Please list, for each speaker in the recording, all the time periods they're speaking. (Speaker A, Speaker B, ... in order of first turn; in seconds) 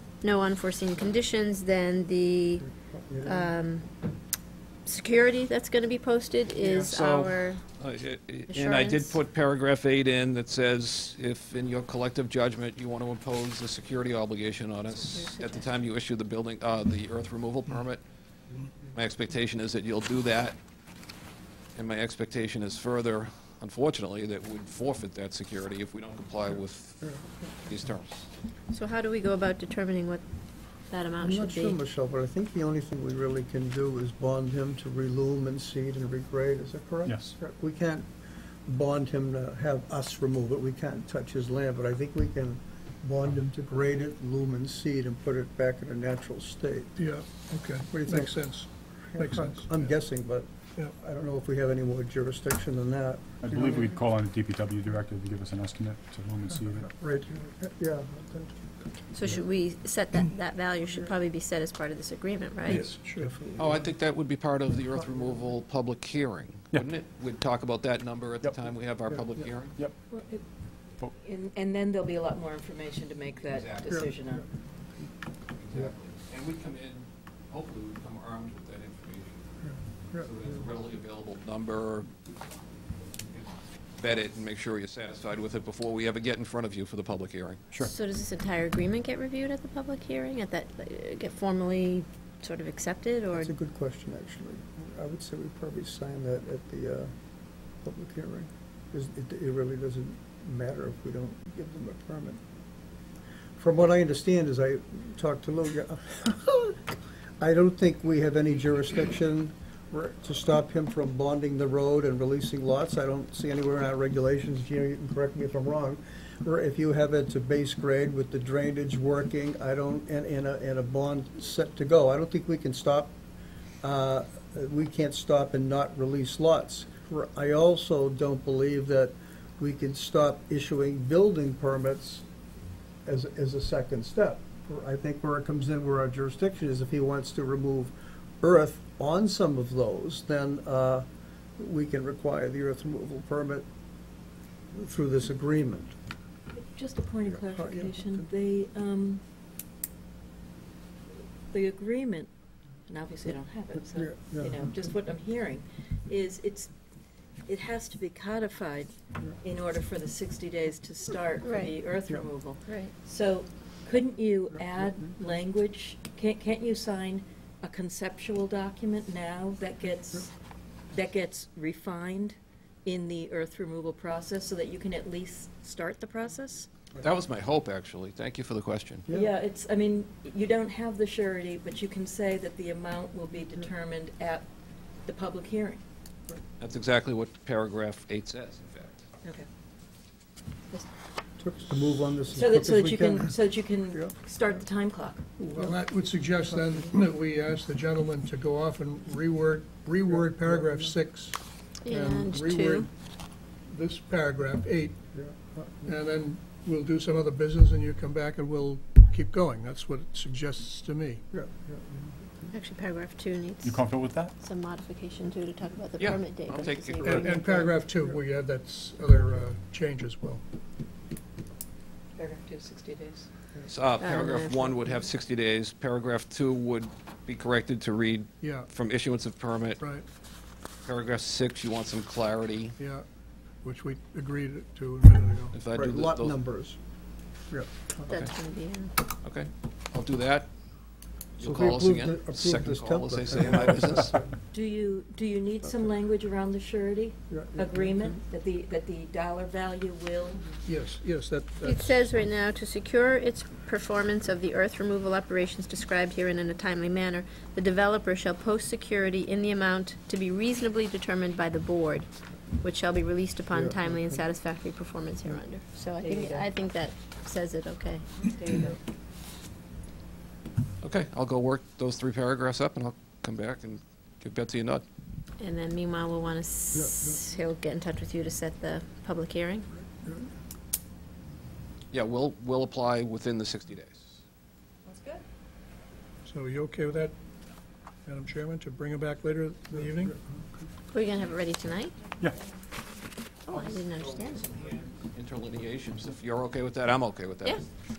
Speaker A: 0.2-2.6, 3.2-3.9, 4.8-7.6, 8.5-9.2, 15.1-15.7, 28.7-30.2, 30.9-31.8, 59.1-62.8, 87.8-93.5, 161.4-161.7, 162.7-162.9, 201.8-202.9, 212.5-213.8, 214.4-217.7, 224.0-224.8, 238.1-238.9, 251.6-262.1, 262.6-268.1, 275.4-279.7, 290.9-291.9, 293.5-294.5
Speaker B: 2.7-3.5, 31.2-38.1, 38.6-47.0, 47.9-48.4, 49.1-54.0, 57.2-58.6, 62.7-63.9, 93.3-97.1, 97.8-102.4, 103.6-123.1, 123.8-132.2, 133.1-141.1, 141.6-143.7, 144.7-145.9, 147.4-148.2, 153.9-154.6, 179.1-179.3, 191.4-193.3, 200.1-200.9, 205.1-205.9, 211.3-212.5, 235.7-236.8, 237.5-238.1, 241.4-244.3, 247.3-248.1, 263.5-264.2, 276.7-277.2
Speaker C: 6.6-18.0, 18.9-20.6, 21.8-28.2, 63.6-69.8, 73.5-74.0, 75.6-82.1, 83.2-87.6, 177.0-179.1, 186.6-189.0, 216.0-217.5, 223.7-229.8, 230.8-232.8, 235.5-236.4, 239.2-240.5, 241.4-244.2, 270.8-274.8, 281.9-284.1, 294.0-297.6
Speaker D: 37.0-37.3, 53.4-56.9, 213.6-214.3
Speaker E: 47.0-49.9, 57.0-57.3, 62.7-63.3, 195.4-202.9, 203.7-205.1, 205.8-211.2, 217.0-220.4, 228.4-228.7, 229.8-230.0, 232.8-233.0, 233.6-235.6, 250.7-252.1, 286.2-287.1, 288.1-290.1
Speaker F: 70.1-70.5, 71.2-74.5, 146.5-149.2, 151.5-152.3, 152.9-156.7, 157.5-170.3, 170.9-176.7, 179.1-184.5, 185.0-185.8, 192.3-195.3, 222.2-223.3, 244.5-250.6, 266.0-266.5, 268.2-268.8, 284.8-285.2